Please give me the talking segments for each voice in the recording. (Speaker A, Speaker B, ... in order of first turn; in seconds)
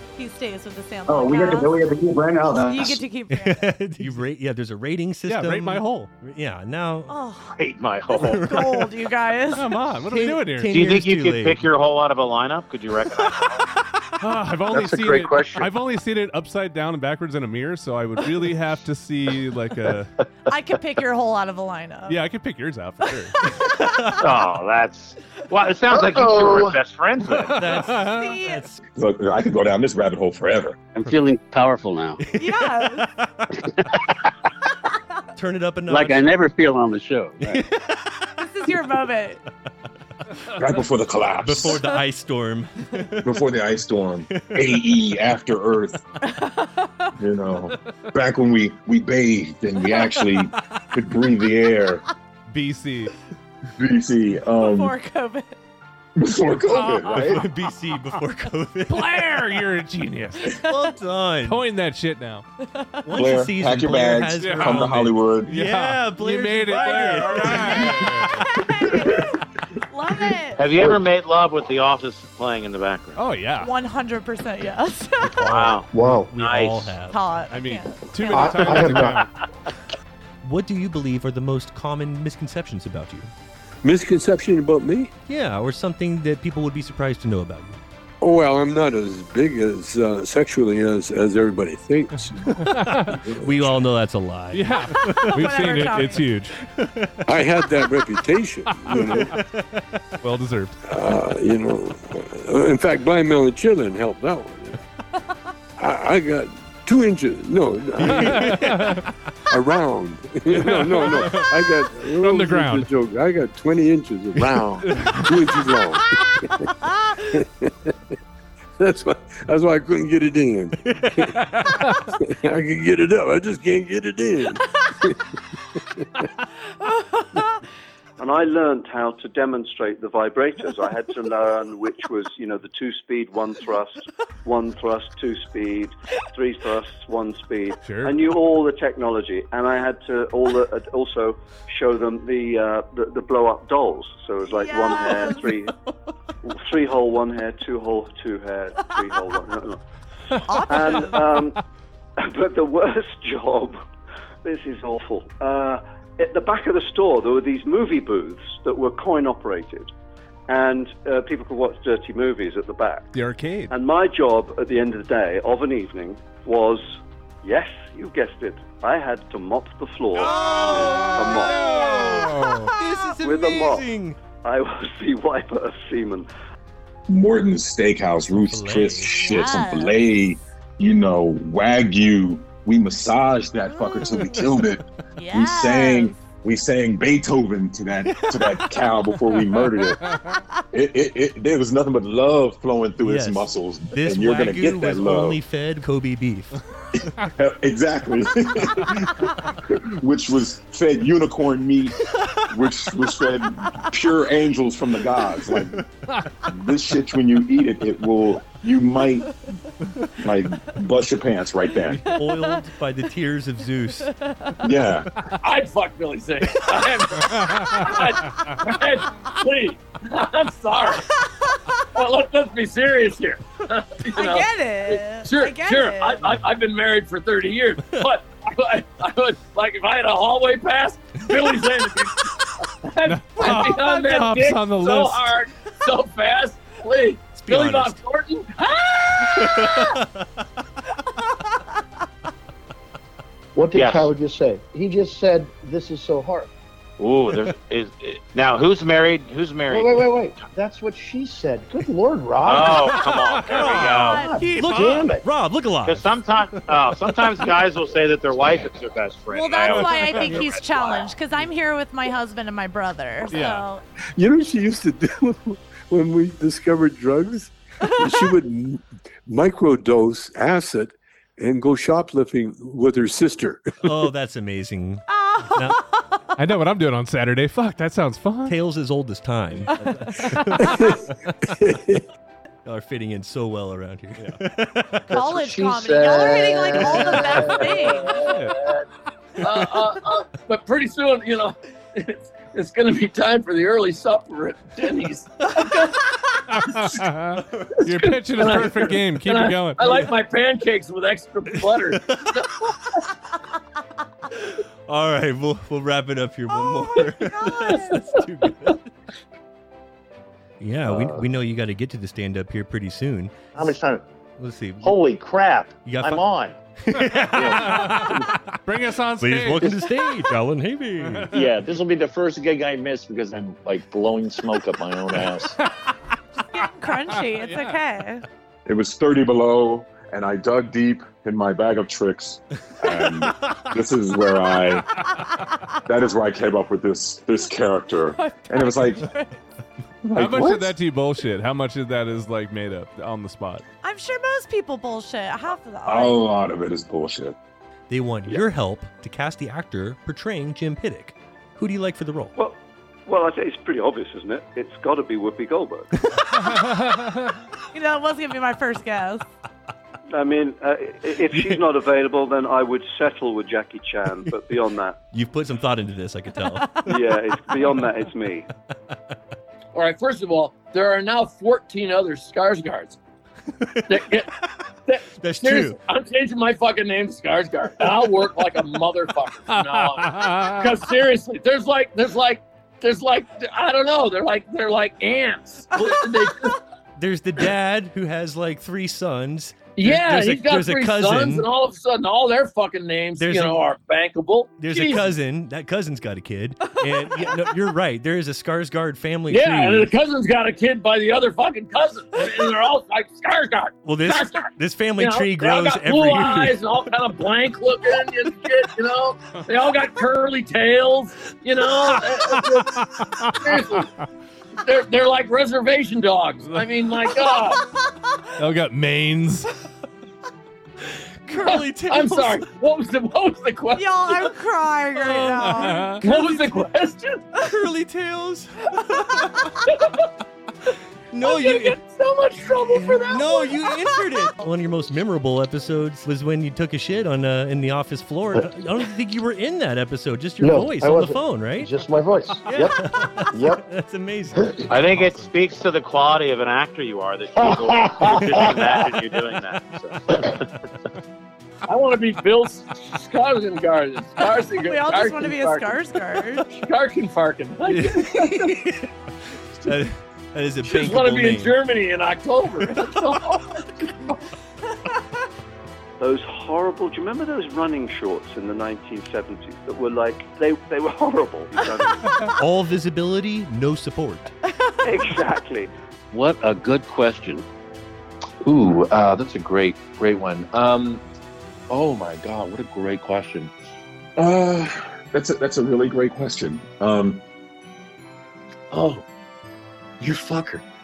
Speaker A: 0.2-1.8, 2.7-3.7, 7.1-7.5, 8.3-9.8, 18.2-18.5, 20.5-22.2, 28.0-28.6, 32.3-33.1, 38.4-39.4, 46.2-47.1, 50.0-50.2, 54.5-55.5, 62.6-63.0, 68.3-70.7, 73.6-75.3, 77.0-79.0, 94.9-96.3, 126.8-127.4, 144.5-145.5, 150.4-151.3, 179.2-180.0, 183.6-184.6, 185.2-186.2, 211.9-212.7, 214.0-214.8, 221.1-221.8, 224.1-226.3, 233.4-234.0, 253.6-255.0, 259.3-263.8, 267.8-268.4, 275.1-276.2, 279.8-280.4, 285.1-288.4, 306.5-308.1, 326.5-328.2, 338.1-339.4, 343.8-346.3, 357.7-359.3, 423.8-426.0, 454.6-456.5
Speaker B: 1.1-3.0
Speaker C: 3.3-7.1, 8.2-8.9, 10.1-11.6, 27.6-28.8, 32.2-33.4, 35.4-36.2, 37.4-38.4, 41.4-43.2, 44.3-44.6, 57.1-59.2, 60.6-61.6, 63.0-68.4, 76.0-77.3, 80.4-83.3, 85.3-87.8, 93.4-95.3, 96.7-97.2, 98.9-99.7, 108.0-109.0, 170.2-174.2, 178.5-179.6, 193.0-196.6, 212.0-214.1, 237.4-238.0, 239.3-240.1, 254.5-256.1, 273.8-275.8, 278.5-281.4, 282.6-285.1, 304.4-308.9, 310.6-313.7, 314.4-314.9, 315.9-316.2, 316.8-318.3, 319.2-321.3, 347.9-352.4, 365.1-367.1, 373.6-374.0, 375.2-375.8, 387.0-391.5, 393.2-393.6, 394.6-399.9, 403.8-406.6, 421.2-422.4, 425.0-426.7, 427.4-429.6, 431.1-431.8, 432.7-441.8, 442.4-445.3, 457.7-458.8, 459.6-461.6, 472.4-474.3
Speaker D: 5.3-6.1, 9.5-10.7, 14.2-20.1, 22.1-23.4, 27.6-28.3, 52.5-53.1, 58.9-60.5, 61.5-62.5, 64.4-68.4, 73.2-73.7, 77.5-79.3, 92.6-93.2, 94.5-96.6, 98.7-99.3, 100.2-100.8, 108.0-109.1, 110.5-112.9, 114.8-115.6, 121.7-122.0, 137.8-138.2, 163.1-163.7, 171.1-172.7, 217.3-217.9, 233.0-235.4, 253.1-254.1, 259.7-260.5, 263.3-263.7, 276.4-278.6, 288.3-288.6, 296.5-300.1, 317.3-319.9, 321.1-321.5, 325.6-325.9, 327.1-327.8, 340.1-343.6, 379.5-380.7, 411.9-413.8, 418.4-419.5, 425.4-426.0
Speaker E: 7.5-8.6, 10.7-13.7, 24.2-27.6, 70.6-73.2, 75.4-76.9, 243.8-244.1, 247.0-250.1, 252.4-255.2, 255.8-261.1, 444.7-450.4
Speaker F: 14.7-15.7, 310.9-311.2, 313.6-314.0, 314.8-316.6, 317.3-318.2, 321.3-325.6, 478.4-481.0, 481.7-483.5, 488.7-489.0, 490.0-490.6
Speaker G: 25.9-26.8, 75.9-76.3, 78.3-79.3, 243.6-246.5, 249.7-253.0, 254.0-254.6, 285.1-288.0, 440.4-443.7, 447.4-448.8
Speaker H: 29.0-30.8, 40.6-41.8, 43.2-46.0, 47.2-52.0, 53.8-55.0, 56.2-57.5, 63.1-65.6, 177.1-190.0, 190.7-195.4, 197.3-202.0, 202.5-205.9, 206.4-209.3, 210.2-212.0, 214.6-215.1, 328.7-334.9, 335.9-339.1, 340.0-340.8, 345.9-347.4, 484.2-487.2
Speaker I: 30.9-32.3, 35.9-37.6, 476.1-477.4
Speaker J: 83.8-85.1, 88.2-93.7, 97.3-99.4, 100.8-104.8, 105.8-108.7, 109.5-116.2, 117.3-117.9, 118.8-125.2, 126.0-126.2, 264.2-273.7, 280.6-282.0
Speaker K: 128.2-145.7, 146.4-149.8, 150.7-151.6, 152.2-153.8, 154.4-159.9, 160.5-163.1, 163.7-171.7, 173.2-173.9, 174.4-176.3, 353.1-355.9, 360.1-365.0, 366.9-368.5, 466.0-472.3, 474.8-475.7
Speaker L: 215.4-221.0, 221.9-239.5, 289.4-295.9, 297.8-302.8, 369.7-373.0, 373.9-374.3, 374.9-386.6, 389.8-395.1, 399.3-413.9, 414.6-417.6, 421.4-424.3, 426.0-427.3, 429.7-430.0, 431.2-433.6, 451.7-455.8, 456.5-458.8, 460.6-464.2